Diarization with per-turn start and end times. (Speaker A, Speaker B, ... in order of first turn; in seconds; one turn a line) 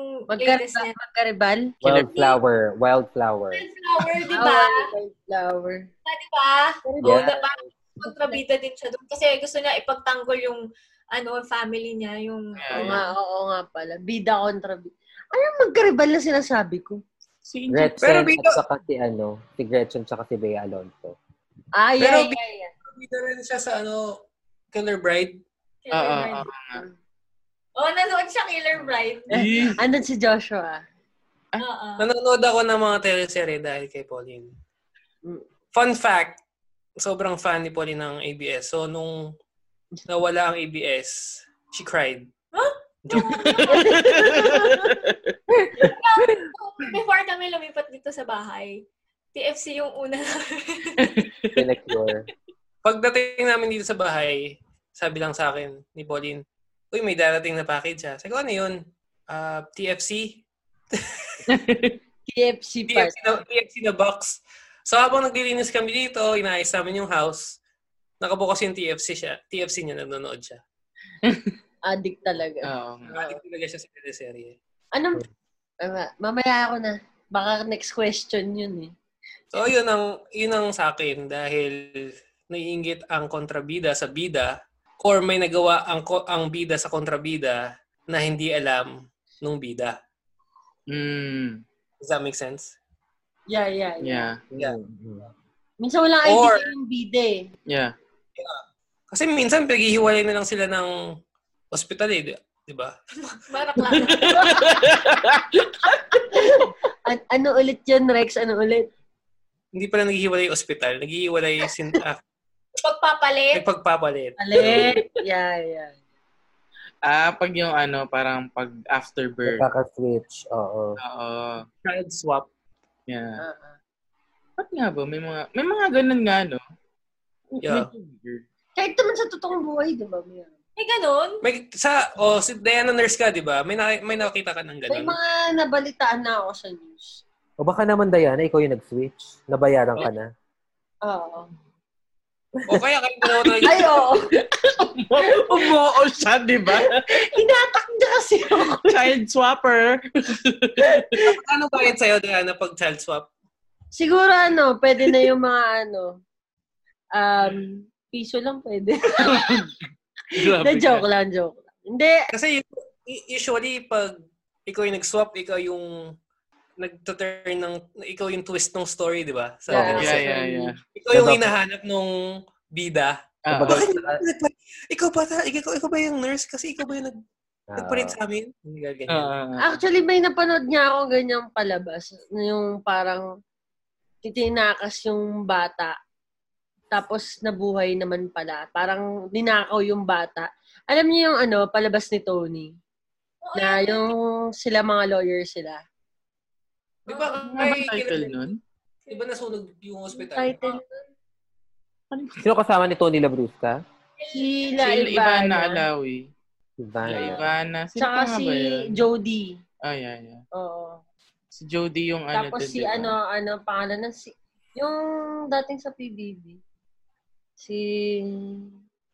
Speaker A: 0.3-0.9
Speaker B: 0.3-1.7
Speaker C: 1.8-3.6
Speaker D: 1.8-2.1
Speaker A: 3.5-4.9
Speaker B: 4.3-5.9
Speaker A: 6.1-10.6
Speaker B: 6.8-7.3
Speaker C: 7.0-7.6
Speaker B: 8.0-8.4
Speaker A: 11.1-13.1
Speaker D: 12.6-13.0
Speaker B: 12.7-17.0
Speaker D: 17.4-18.3
Speaker C: 17.7-21.2
Speaker E: 18.0-18.6
Speaker B: 21.8-22.7
Speaker E: 22.0-22.4
Speaker E: 22.9-24.1
Speaker E: 24.7-25.4
Speaker A: 25.9-26.5
Speaker D: 25.9-26.8
Speaker A: 27.8-29.7
Speaker B: 29.3-30.8
Speaker D: 29.3-29.8
Speaker A: 31.6-32.0
Speaker E: 32.0-34.5
Speaker E: 35.7-36.4
Speaker E: 37.0-39.3
Speaker E: 40.1-42.3
Speaker A: 42.5-44.6
Speaker E: 43.0-43.7
Speaker D: 43.1-45.4
Speaker B: 43.7-45.0
Speaker C: 45.6-45.9
Speaker A: 45.8-48.8
Speaker A: 49.3-51.2
Speaker D: 51.0-51.6
Speaker C: 51.5-52.3
Speaker E: 52.8-58.8
Speaker E: 59.3-61.4
Speaker D: 61.5-62.0
Speaker B: 62.3-63.2
Speaker E: 62.9-67.6
Speaker E: 68.2-70.6
Speaker D: 71.2-71.5
Speaker B: 71.9-73.4
Speaker D: 72.7-73.1
Speaker E: 73.1-74.5
Speaker B: 74.9-75.3
Speaker B: 75.8-78.9
Speaker E: 79.5-90.0
Speaker D: 90.9-91.6
Speaker E: 92.0-92.8
Speaker B: 93.5-94.3
Speaker D: 94.0-94.4
Speaker C: 94.5-95.3
Speaker B: 95.8-97.5
Speaker E: 96.2-96.7
Speaker D: 97.7-97.9
Speaker E: 98.4-101.0
Speaker E: 101.7-102.9
Speaker A: 103.2-104.6
Speaker D: 104.0-106.3
Speaker B: 104.3-104.7
Speaker B: 105.9-108.9
Speaker E: 109.7-112.2
Speaker A: 112.8-113.6
Speaker E: 113.5-115.0
Speaker B: 114.4-116.0
Speaker D: 117.0-119.7
Speaker C: 119.5-121.0
Speaker D: 121.0-121.7
Speaker E: 121.8-122.5
Speaker D: 123.1-123.4
Speaker B: 123.4-123.8
Speaker D: 124.6-126.6
Speaker E: 127.6-127.9
Speaker D: 127.6-128.4
Speaker B: 128.8-130.5
Speaker A: 130.8-131.4
Speaker E: 131.4-135.2
Speaker B: 134.9-137.2
Speaker C: 137.6-140.3
Speaker B: 141.1-141.5
Speaker E: 142.7-144.0
Speaker B: 143.6-144.3
Speaker D: 144.1-147.1
Speaker B: 145.2-146.0
Speaker B: 146.7-149.1
Speaker D: 148.8-151.3
Speaker E: 151.2-153.3
Speaker B: 153.9-156.2
Speaker B: 157.2-159.7
Speaker D: 159.1-159.7
Speaker D: 160.3-161.1
Speaker B: 160.3-162.3
Speaker E: 162.3-164.2
Speaker E: 164.7-166.0
Speaker E: 166.8-170.3
Speaker B: 169.7-170.7
Speaker C: 169.7-170.2
Speaker D: 169.9-170.8
Speaker E: 170.9-172.2
Speaker C: 171.1-171.5
Speaker E: 172.7-177.2
Speaker D: 173.5-173.8
Speaker C: 173.5-174.2
Speaker C: 177.7-178.2
Speaker E: 177.8-179.3
Speaker D: 179.1-179.6
Speaker B: 179.6-183.3
Speaker B: 184.2-186.0
Speaker B: 186.9-192.7
Speaker A: 193.4-194.2
Speaker B: 193.6-195.8
Speaker E: 197.1-198.5
Speaker D: 197.4-198.6
Speaker E: 199.1-200.8
Speaker B: 200.1-201.0
Speaker D: 202.1-202.4
Speaker C: 202.4-203.8
Speaker A: 204.2-204.6
Speaker B: 204.3-205.8
Speaker D: 204.8-206.3
Speaker C: 206.8-207.4
Speaker D: 207.1-209.1
Speaker B: 208.0-209.6
Speaker D: 209.8-210.4
Speaker B: 210.5-211.0
Speaker D: 211.5-213.2
Speaker B: 212.3-216.6
Speaker B: 217.6-218.7